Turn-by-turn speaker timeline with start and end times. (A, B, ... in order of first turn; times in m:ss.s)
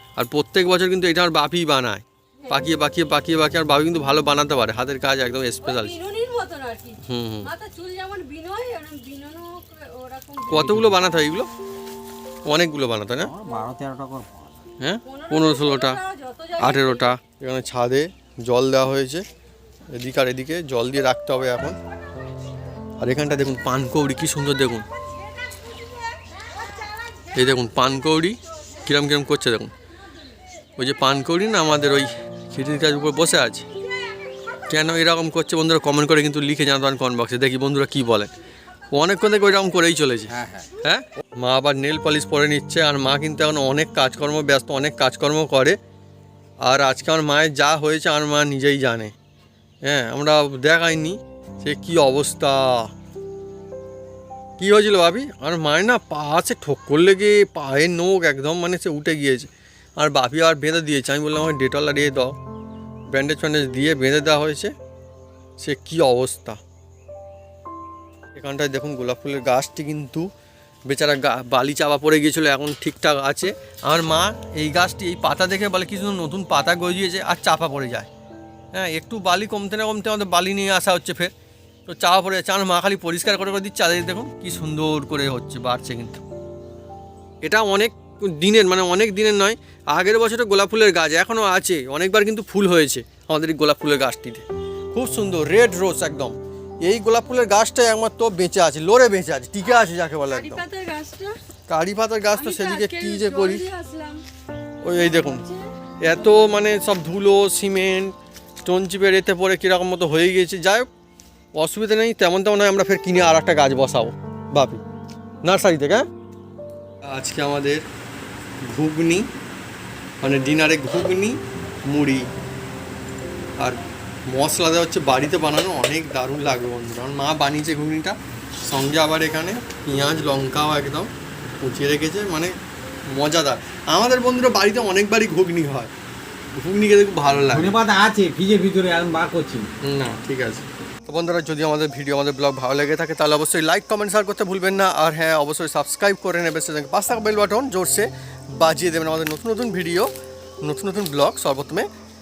0:00.2-0:05.9 A
0:05.6-0:10.8 B
0:07.0-0:07.5 A
0:10.5-0:11.5 A
0:12.4-0:13.3 A
0:13.2-0:14.7 C
0:14.8-0:16.0 A
0:15.0-0:17.2 B
0:16.6-0:19.2 A
0:19.9-0:21.8 A
0:23.0-0:24.8 A
0:25.2-0:27.3 B
0:27.3-0:29.7 A
0:30.8-0:33.6 A
0:34.7-0:38.3 A
0:38.9-0:45.8 A
0:40.3-0:40.7 C
0:46.6-0:49.1 A
0:49.8-0:52.9 A
0:54.6-1:02.3 A
1:03.1-1:04.7 A
1:05.6-1:06.6 A
1:08.3-1:10.2 A
1:10.9-1:18.1 A
1:18.7-1:21.3 A
1:21.9-1:26.2 A
1:27.4-1:40.6 A
1:39.6-1:41.4 B
1:41.7-1:43.6 A
1:42.4-1:44.2 B
1:44.8-1:45.4 A
1:44.9-1:45.7 B
1:46.0-1:50.9 A
1:51.6-1:54.8 A
1:55.4-1:56.0 A
1:57.0-1:57.8 A
1:58.6-1:59.3 A
2:00.2-2:02.3 A
2:03.6-2:12.5 A
2:13.1-2:15.9 A
2:16.6-2:17.8 A
2:17.5-2:19.7 C
2:19.8-2:30.1 A
2:30.6-2:31.9 A